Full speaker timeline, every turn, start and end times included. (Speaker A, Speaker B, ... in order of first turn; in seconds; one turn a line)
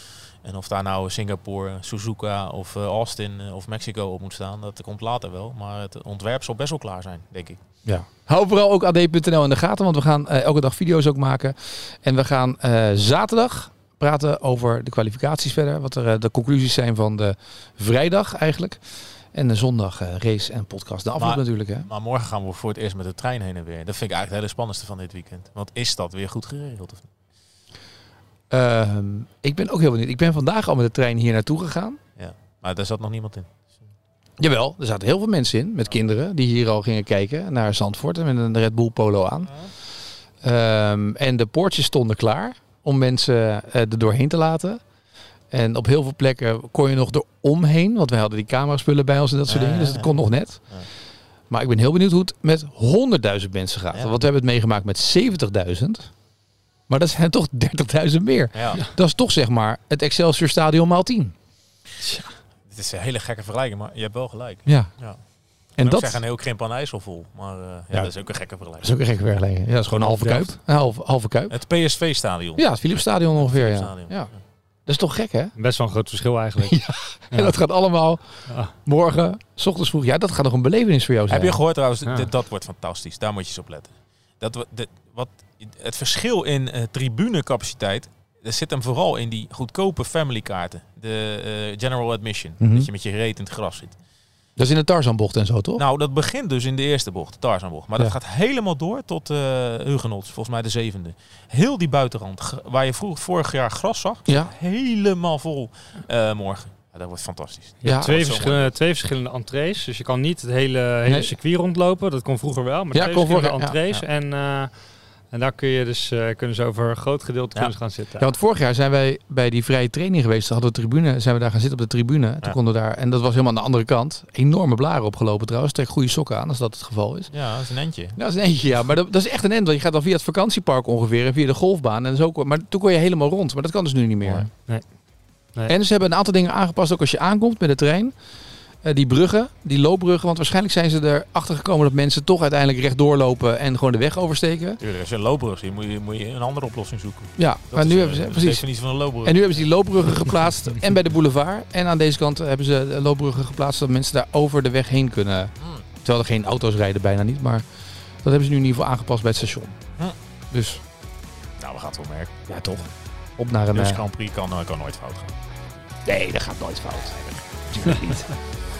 Speaker A: 0.4-7.6
Speaker B: 7.8-18.8
Speaker B: 19.3-21.9
Speaker A: 21.2-27.1
Speaker B: 28.5-32.0
Speaker A: 32.2-33.6
Speaker B: 34.4-39.5
Speaker B: 40.4-44.8
Speaker B: 45.5-50.6
Speaker A: 49.5-50.9
Speaker B: 51.5-56.1
Speaker B: 56.9-61.3
Speaker A: 58.5-58.8
Speaker A: 62.7-65.2
Speaker A: 65.8-68.9
Speaker B: 65.8-66.2
Speaker B: 68.8-71.5
Speaker C: 69.9-70.5
Speaker A: 71.5-72.7
Speaker B: 72.6-74.3
Speaker A: 73.3-74.3
Speaker B: 74.8-75.5
Speaker C: 75.6-77.6
Speaker B: 76.6-78.2
Speaker B: 78.8-81.6
Speaker A: 81.3-94.0
Speaker B: 92.6-92.9
Speaker B: 94.6-95.8
Speaker A: 95.8-108.7
Speaker B: 104.3-104.5
Speaker C: 107.8-114.7
Speaker B: 107.8-108.1
Speaker B: 111.0-111.3
Speaker B: 112.9-113.8
Speaker C: 115.3-118.3
Speaker B: 118.2-127.3
Speaker A: 127.3-128.2
Speaker B: 128.2-134.5
Speaker A: 134.2-134.5
Speaker B: 135.7-138.1
Speaker B: 138.8-144.8
Speaker A: 144.8-149.7
Speaker B: 147.4-148.6
Speaker B: 149.2-155.5
Speaker B: 156.0-157.6
Speaker B: 158.2-159.8
Speaker B: 160.5-160.8
Speaker A: 161.6-162.4
Speaker B: 162.5-164.0
Speaker A: 163.7-165.3
Speaker B: 166.1-168.3